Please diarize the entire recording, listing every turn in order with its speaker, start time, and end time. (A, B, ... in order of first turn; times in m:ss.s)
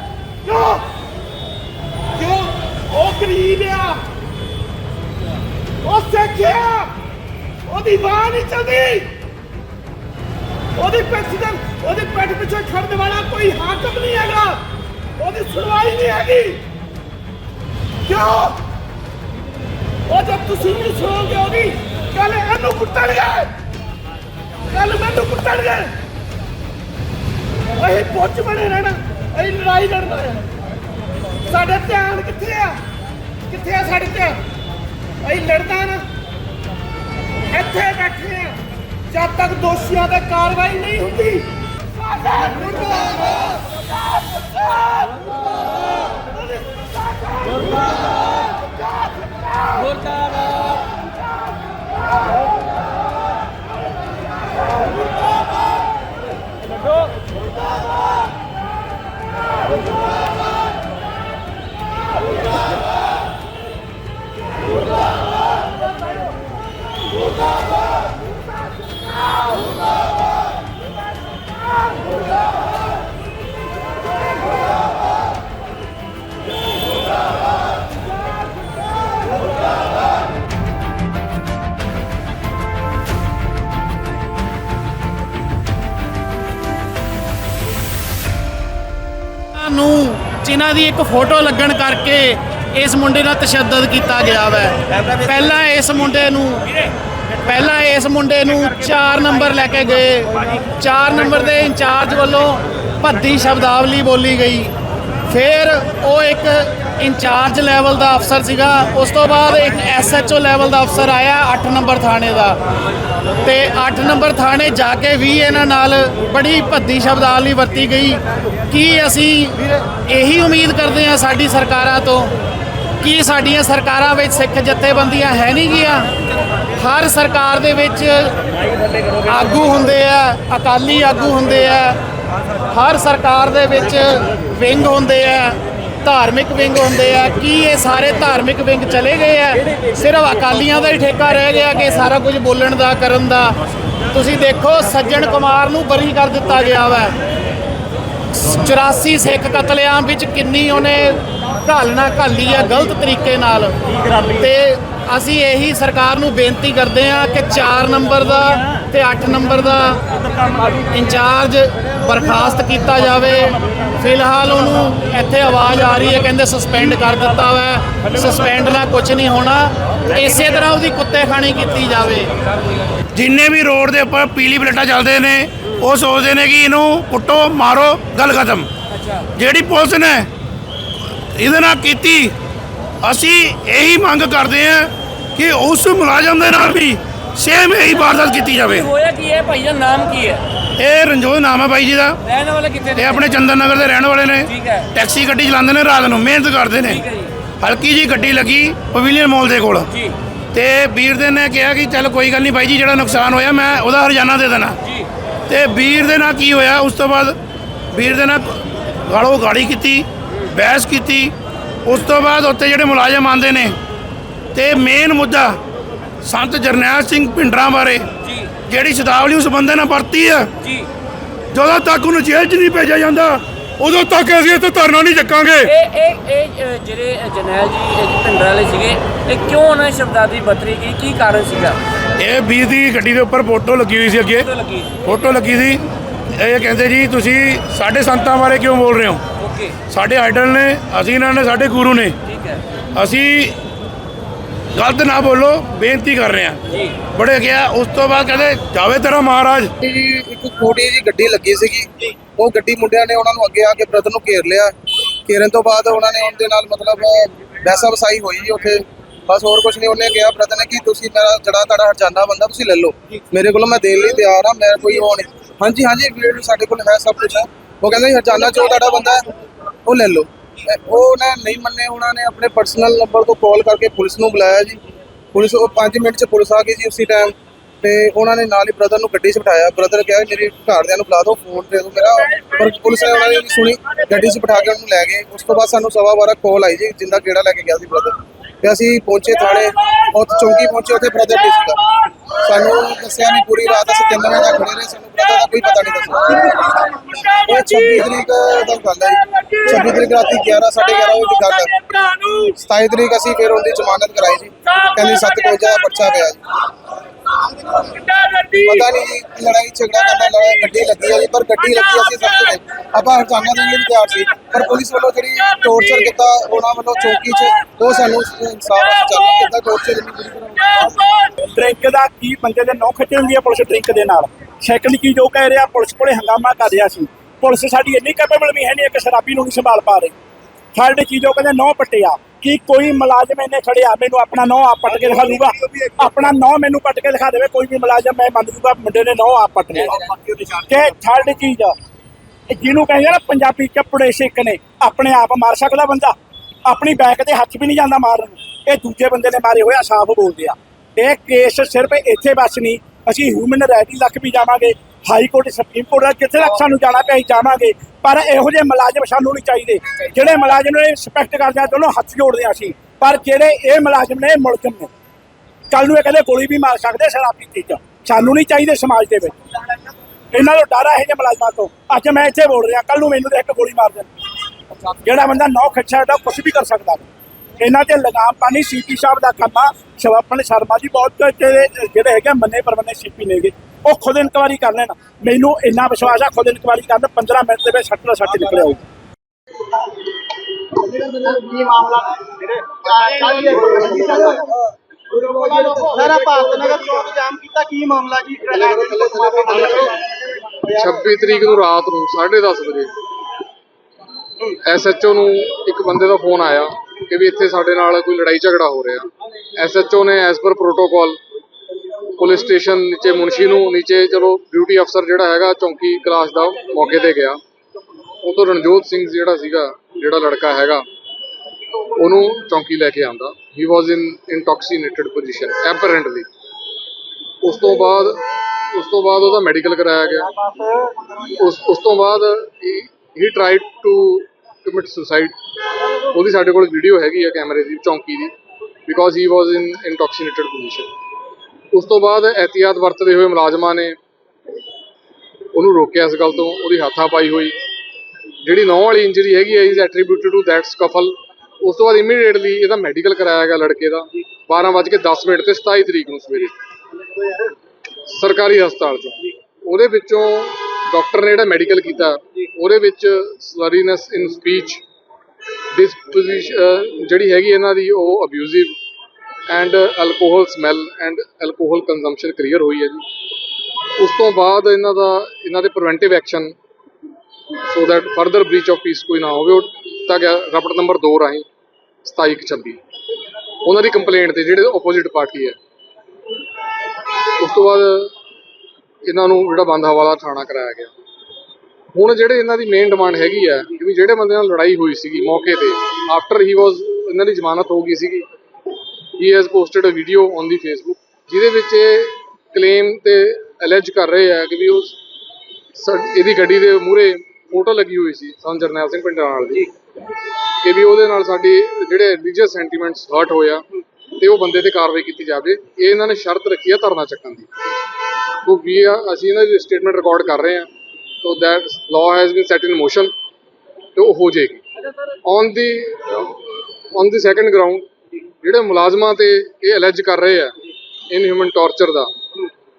0:00.4-0:00.8 A
0:02.2-0:04.0 A
0:05.8-0:06.9 A
0:07.7-0:09.1 A
0:10.8-0:14.6 A
0:15.2-0:16.6 A
0:18.1-0:18.6 A
0:20.1-0:23.5 A
0:24.7-0:25.9 A
0:27.8-0:30.4 A
0:31.5-0:32.8 A
0:33.5-0:34.4 A
0:35.2-0:36.0 A
0:37.5-0:38.6 A
0:39.1-0:41.5 A
0:42.0-0:43.5 A
0:44.2-0:45.3 A
0:46.3-0:47.7 A
0:49.2-0:49.8 A
1:29.5-1:36.7 B
1:37.4-1:44.7 B
1:45.3-1:52.6 B
1:53.4-2:02.3 B
2:03.0-2:06.1 B
2:06.8-2:08.3 B
2:09.2-2:12.0 B
2:12.7-2:23.6 B
2:24.1-2:27.2 B
2:28.4-2:33.8 B
2:34.3-2:40.0 B
2:40.9-2:52.3 B
2:53.1-2:58.7 C
2:59.4-3:00.3 C
3:01.4-3:02.3 C
3:03.0-3:08.9 C
3:08.7-3:10.4 D
3:10.8-3:12.2 C
3:12.2-3:13.3 D
3:12.9-3:17.0 C
3:14.5-3:14.8 D
3:16.8-3:17.3 D
3:17.6-3:19.9 C
3:20.5-3:24.8 C
3:25.5-3:27.3 C
3:27.9-3:31.3 C
3:31.8-3:33.8 C
3:34.5-3:35.6 C
3:36.2-3:40.5 C
3:38.2-3:38.5 D
3:40.6-3:40.9 D
3:41.5-3:45.7 C
3:45.7-3:51.8 D
3:52.2-3:54.5 C
3:54.4-3:55.0 D
3:55.0-3:55.8 C
3:56.4-3:59.2 C
3:59.4-3:59.8 D
3:59.8-4:02.2 C
4:02.2-4:02.6 D
4:02.9-4:03.6 C
4:04.7-4:09.7 C
4:06.7-4:07.0 D
4:09.8-4:14.7 E
4:15.2-4:29.3 E
4:29.8-4:34.8 E
4:35.3-4:51.8 E
4:52.4-5:06.4 E
5:07.9-5:21.1 E
5:21.4-5:30.1 F
5:30.7-5:41.8 F
5:42.5-6:04.9 F
6:05.7-6:09.4 F
6:10.3-6:14.1 F
6:14.8-6:17.1 F
6:17.6-6:28.8 F
6:30.8-6:34.5 G
6:35.1-6:41.1 G
6:40.8-6:42.9 H
6:44.4-6:51.2 H
6:52.2-6:57.4 H
6:58.2-7:00.8 H
7:02.0-7:06.3 H
7:07.4-7:10.3 H
7:10.2-7:11.3 G
7:11.4-7:15.4 H
7:16.1-7:18.3 H
7:18.8-7:20.9 H
7:21.7-7:24.0 H
7:25.5-7:27.6 H
7:28.4-7:36.6 H
7:38.1-7:44.8 H
7:45.7-7:48.8 H
7:49.5-7:53.0 H
7:54.0-7:56.5 H
7:57.7-8:01.5 H
8:02.0-8:02.8 H
8:03.6-8:05.6 H
8:07.4-8:08.1 H
8:09.0-8:10.9 H
8:11.9-8:18.3 H
8:19.2-8:25.0 H
8:25.7-8:29.7 H
8:30.6-8:33.6 H
8:34.2-8:37.5 H
8:38.4-8:40.7 H
8:41.2-8:43.1 H
8:44.0-8:44.6 H
8:45.2-8:47.9 H
8:48.4-8:50.6 H
8:51.1-8:52.1 H